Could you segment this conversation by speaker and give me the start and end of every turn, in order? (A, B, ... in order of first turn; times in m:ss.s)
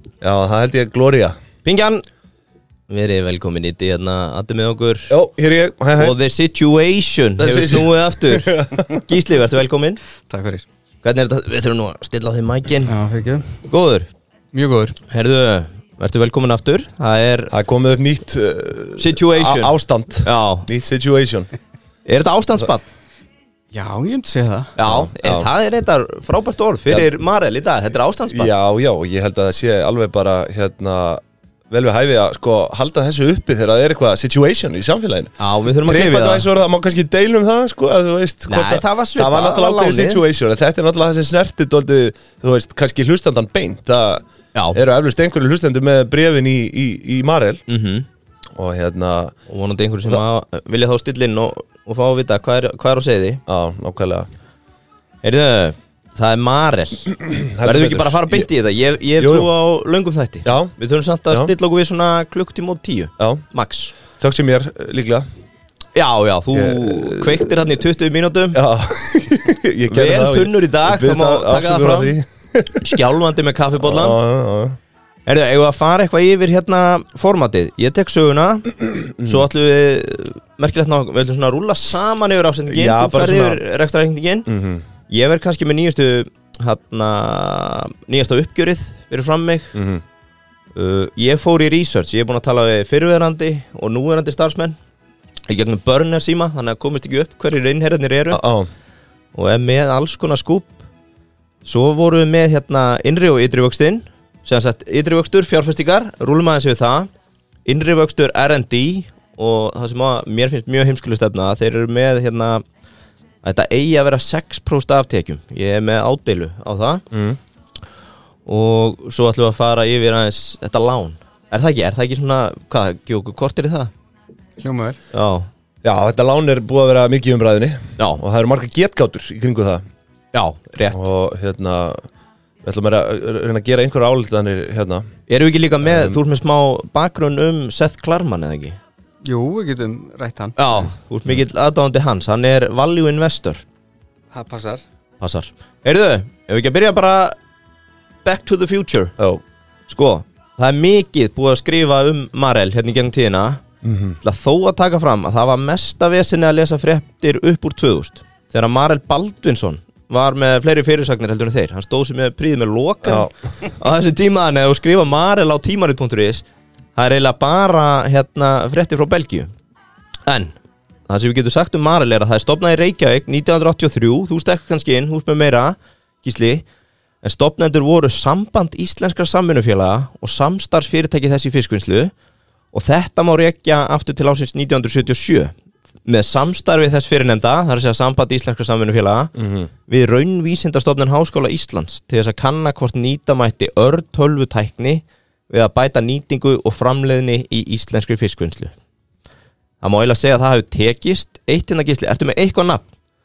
0:00.2-0:01.4 A
0:01.6-0:02.0 B
0:02.9-0:05.1 B
0:05.1-0:06.2 A
0:06.0-0:10.0 B
0:07.4-0:09.0 A
0:10.3-0:10.6 C
0:11.0-0:12.9 B
0:12.8-0:13.6 C
0:13.6-0:14.1 B
0:14.5-0:15.0 C
0:15.1-0:17.5 B
0:17.5-0:21.5 A
0:19.0-0:20.7 B
0:22.1-0:22.9 B
0:23.7-0:24.7 C
0:24.8-0:28.5 B
0:24.8-0:25.5 A
0:28.3-0:35.3 A
0:35.4-0:36.5 B
0:35.8-0:47.6 A
0:38.5-0:40.2 B
0:44.6-0:44.8 B
0:47.7-0:48.1 B
0:48.6-0:49.4 A
0:49.5-0:53.4 B
0:53.5-0:54.3 A
0:55.2-1:03.9 B
0:57.2-0:58.5 A
0:59.2-0:59.5 A
1:00.4-1:00.8 A
1:03.2-1:03.4 A
1:04.1-1:05.3 A
1:06.0-1:08.6 B
1:06.5-1:07.5 A
1:08.5-1:13.0 A
1:09.9-1:12.2 B
1:12.8-1:14.2 B
1:13.8-1:14.8 A
1:15.3-1:24.5 B
1:22.7-1:23.6 A
1:24.5-1:24.8 A
1:25.1-1:29.8 B
1:29.7-1:30.0 A
1:30.8-1:34.8 B
1:35.5-1:38.4 B
1:38.3-1:38.7 A
1:39.4-1:40.8 B
1:41.6-1:47.1 B
1:47.7-1:52.6 B
1:53.4-1:57.0 B
1:57.1-1:57.4 A
1:58.5-2:03.9 B
2:04.6-2:05.0 C
2:05.1-2:05.5 B
2:05.8-2:09.8 A
2:10.3-2:11.0 B
2:10.9-2:12.0 A
2:12.6-2:15.0 A
2:15.3-2:18.8 B
2:15.9-2:16.2 A
2:19.2-2:20.9 C
2:20.6-2:23.6 B
2:24.3-2:24.8 C
2:25.2-2:27.4 B
2:28.2-2:29.1 B
2:29.9-2:33.6 B
2:33.8-2:34.2 A
2:34.2-2:49.5 B
2:43.0-2:43.3 A
2:50.3-2:50.6 B
2:51.1-2:56.6 B
2:57.2-3:02.1 B
3:02.7-3:05.5 B
3:06.0-3:09.3 B
3:09.4-3:09.7 A
3:09.9-3:18.7 B
3:19.8-3:22.8 B